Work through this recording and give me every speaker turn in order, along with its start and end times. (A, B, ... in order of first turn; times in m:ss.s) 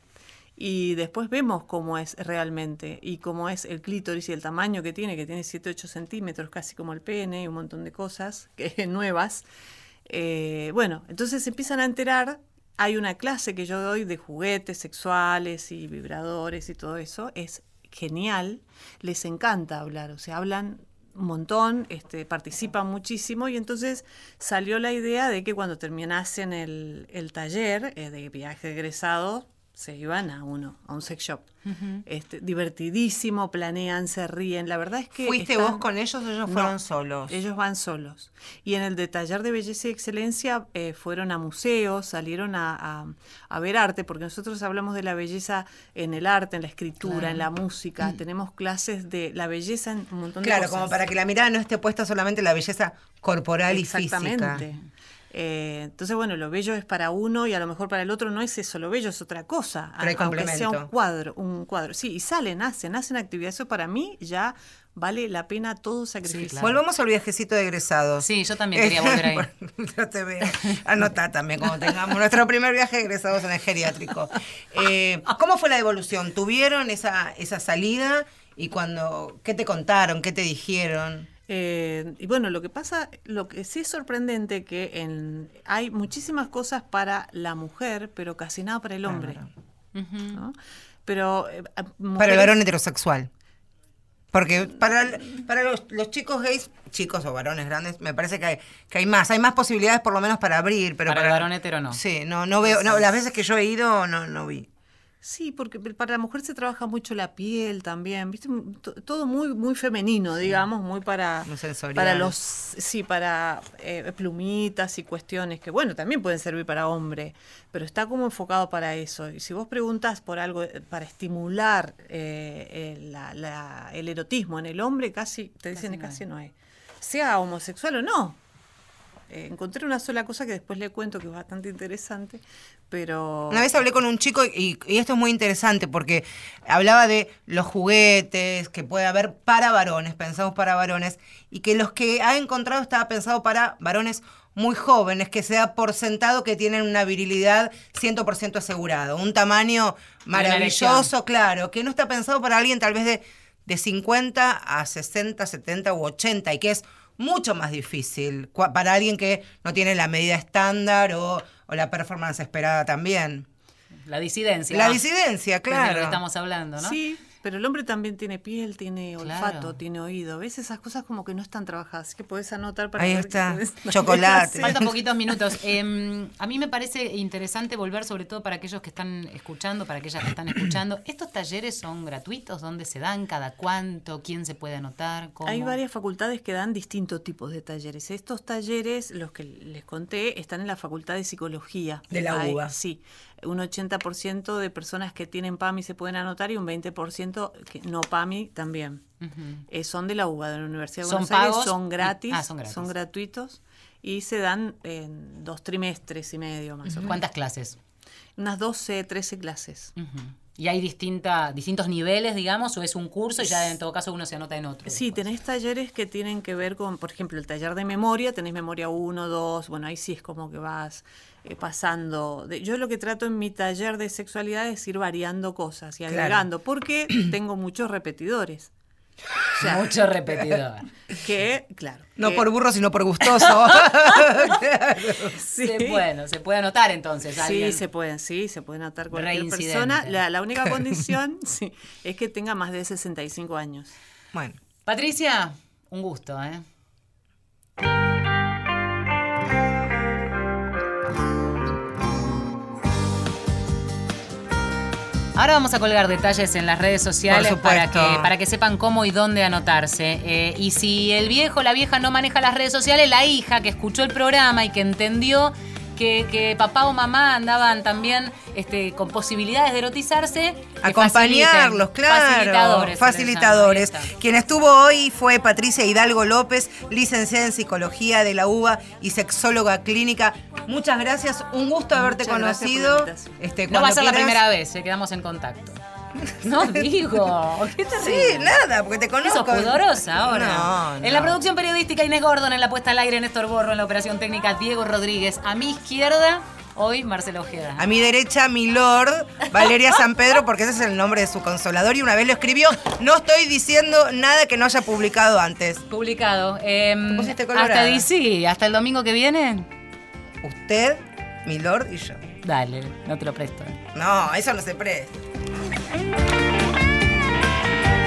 0:00.6-0:09.4 A
0:10.1-0:31.5 A
0:31.6-0:32.0 B
0:32.0-0:35.8 A
0:35.2-0:37.4 C
0:36.5-0:36.7 A
0:37.3-0:51.0 A
0:47.1-0:47.4 B
0:50.4-0:54.6 C
0:53.7-1:06.8 A
1:00.0-1:00.9 C
1:06.2-1:06.7 B
1:06.6-1:21.3 C
1:08.2-1:09.5 B
1:21.5-1:29.4 A
1:29.0-1:29.5 C
1:29.9-1:30.4 B
1:31.0-1:32.5 A
1:32.2-1:33.3 C
1:34.3-1:44.7 C
1:41.1-1:42.0 B
1:42.7-1:43.0 A
1:45.2-2:08.4 A
1:51.4-1:52.3 C
2:05.7-2:06.2 B
2:09.3-2:13.7 A
2:13.5-2:43.4 C
2:30.3-2:31.1 B
2:44.1-2:45.0 B
2:44.7-2:46.2 C
2:45.7-2:47.0 B
2:46.8-2:54.8 A
2:49.2-2:49.8 B
2:53.0-2:54.9 C
2:54.6-3:05.8 B
3:05.4-3:19.0 A
3:12.1-3:12.8 C
3:19.2-3:19.6 B
3:19.7-3:27.2 A
3:21.0-3:22.9 B
3:27.0-3:27.8 B
3:28.4-3:29.9 A
3:30.0-3:35.2 B
3:33.4-3:33.7 A
3:34.9-3:48.7 A
3:46.1-3:46.4 C
3:49.5-3:49.9 A
3:49.6-3:50.9 B
3:51.2-3:52.5 A
3:52.2-3:55.3 C
3:55.2-3:56.0 A
3:55.6-3:57.8 B
3:57.4-4:03.9 A
3:59.1-4:00.2 B
4:04.8-4:06.6 B
4:15.3-4:34.1 B
4:17.3-4:18.3 C
4:30.8-4:44.4 C
4:41.9-4:43.4 A
4:43.7-4:45.8 B
4:46.2-4:46.8 C
4:46.4-4:48.5 B
4:48.0-4:51.4 C
4:49.2-4:57.8 B
4:57.8-5:05.8 C
5:05.9-5:09.7 B
5:07.1-5:08.1 C
5:10.4-5:12.2 C
5:12.4-5:13.8 B
5:13.9-5:15.1 C